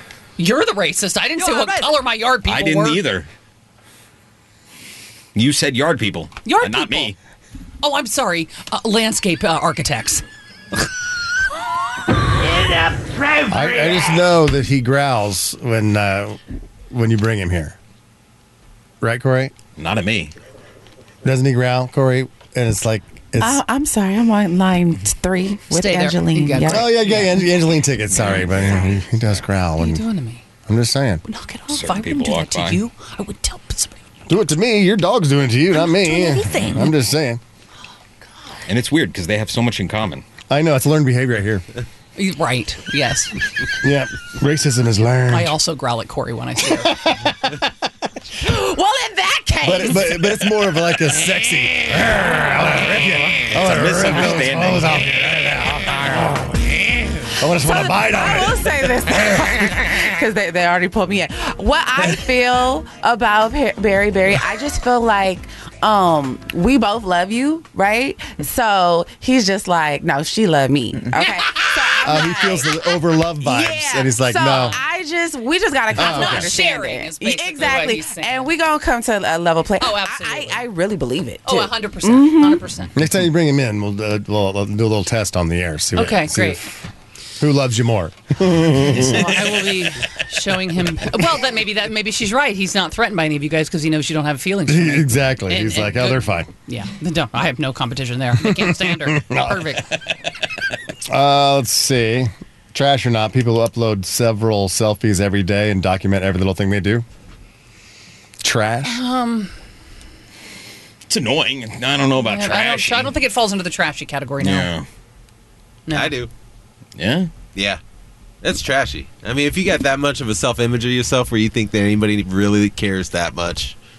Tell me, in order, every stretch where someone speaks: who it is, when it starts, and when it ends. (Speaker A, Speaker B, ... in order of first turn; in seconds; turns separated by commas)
Speaker A: 0.4-3.0, Speaker B: 2.5-3.3, Speaker B: 5.3-7.2, Speaker A: 6.5-7.1, Speaker A: 7.8-10.2, Speaker C: 13.5-16.4, Speaker C: 16.9-17.8, Speaker C: 19.0-19.5, Speaker B: 19.8-20.3, Speaker C: 21.2-23.6, Speaker D: 23.4-26.9, Speaker A: 25.7-27.5, Speaker C: 26.7-30.1, Speaker B: 28.1-29.0, Speaker A: 29.8-30.4, Speaker C: 30.7-31.2, Speaker A: 31.2-34.0, Speaker B: 31.7-32.8, Speaker C: 34.3-37.4, Speaker A: 35.8-36.9, Speaker B: 38.7-40.2, Speaker C: 40.5-41.6, Speaker A: 42.2-43.4, Speaker C: 43.8-45.5, Speaker A: 45.3-47.1, Speaker C: 46.8-47.3, Speaker D: 48.4-50.4, Speaker C: 49.6-56.7, Speaker B: 53.5-55.1, Speaker C: 57.3-58.8, Speaker D: 57.6-82.6, Speaker A: 71.1-71.7, Speaker C: 72.0-74.8, Speaker C: 75.9-76.5, Speaker A: 76.0-78.6, Speaker A: 79.8-80.7, Speaker A: 81.4-83.0, Speaker C: 82.9-86.7, Speaker A: 86.0-86.6, Speaker C: 87.4-89.5, Speaker A: 88.8-99.8, Speaker C: 94.7-96.5, Speaker C: 98.4-99.8, Speaker C: 101.1-107.1, Speaker C: 108.4-109.0, Speaker A: 108.8-109.5, Speaker B: 111.1-113.1, Speaker A: 112.2-114.7, Speaker B: 114.4-114.9, Speaker A: 115.9-116.2, Speaker E: 115.9-116.3, Speaker B: 117.0-117.3, Speaker E: 117.5-117.8, Speaker E: 118.4-123.8